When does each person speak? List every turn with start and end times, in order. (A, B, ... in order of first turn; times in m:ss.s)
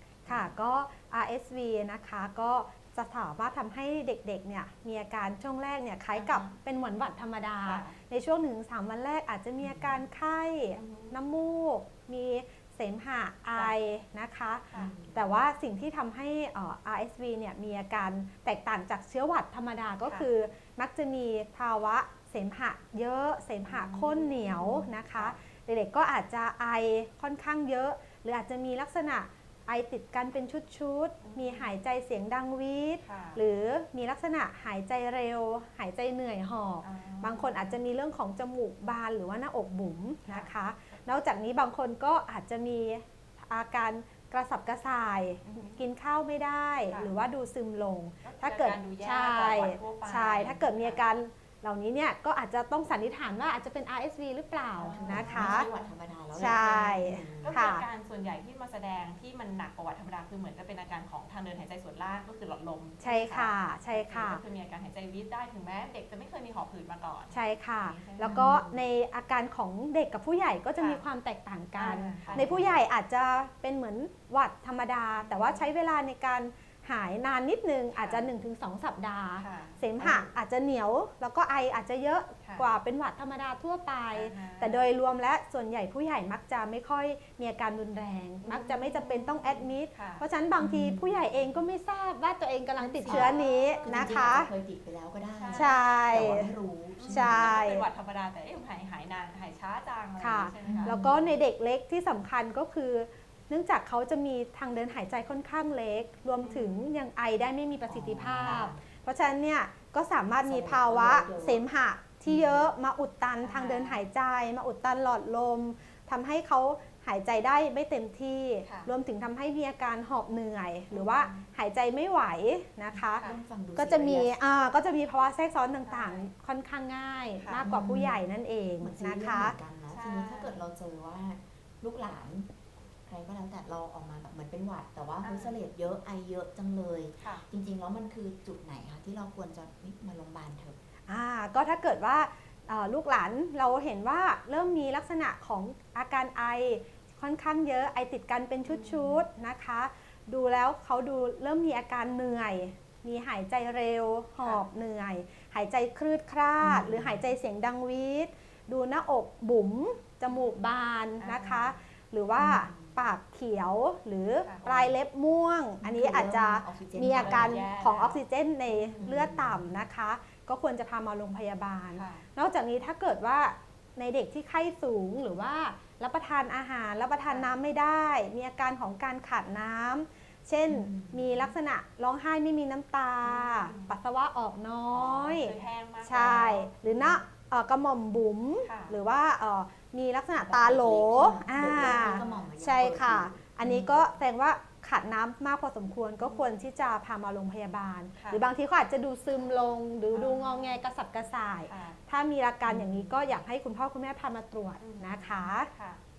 0:00.2-0:00.5 A
0:00.2-0:55.7 B
0:06.1-0:06.5 C
0:07.6-0:08.0 C
0:09.6-0:10.0 A
0:10.7-0:11.1 C
0:14.7-0:15.3 A
0:23.7-0:25.4 C
0:31.2-0:31.7 C
0:33.0-0:33.4 C
0:36.8-0:37.8 C
0:45.4-0:45.8 C
0:48.2-0:51.0 C
0:54.8-0:55.9 C
0:54.8-0:57.7 A
0:56.3-0:57.8 B
0:57.4-1:08.4 C
1:03.0-1:04.4 B
1:07.3-1:34.5 B
1:08.2-1:08.8 A
1:11.8-1:12.5 C
1:12.3-1:12.8 A
1:15.2-1:15.7 C
1:17.9-1:18.3 C
1:19.4-1:20.3 C
1:24.1-1:24.8 C
1:28.4-1:30.2 C
1:30.6-1:31.5 A
1:32.8-1:37.5 A
1:33.0-1:34.3 C
1:35.4-1:36.2 C
1:35.5-1:36.5 B
1:37.0-1:41.0 C
1:37.1-1:37.8 B
1:40.2-2:03.2 B
1:40.6-1:41.3 A
1:46.4-1:46.9 C
1:47.9-1:48.8 A
1:50.4-1:51.6 A
1:52.2-1:52.7 A
1:53.4-1:54.0 C
2:00.9-2:01.4 C
2:02.9-2:04.3 A
2:03.8-2:09.6 B
2:05.8-2:06.3 C
2:07.6-2:08.2 A
2:08.8-2:12.5 A
2:09.9-2:10.6 C
2:13.0-2:20.8 A
2:15.2-2:15.5 C
2:21.1-3:25.7 B
2:28.7-2:29.1 C
2:36.6-2:37.3 A
2:41.2-2:41.8 C
2:42.4-2:43.0 A
2:44.4-2:44.9 C
2:45.8-2:47.6 A
2:47.1-2:49.1 C
2:49.0-2:49.6 A
2:52.0-2:52.2 C
3:00.7-3:01.4 A
3:03.2-3:04.0 C
3:04.9-3:06.7 C
3:06.9-3:07.2 A
3:08.6-3:09.0 C
3:10.4-3:14.1 A
3:12.0-3:12.4 C
3:16.2-3:16.5 C
3:20.1-3:20.8 C
3:21.7-3:22.0 C
3:22.6-3:23.4 A
3:24.8-3:26.0 C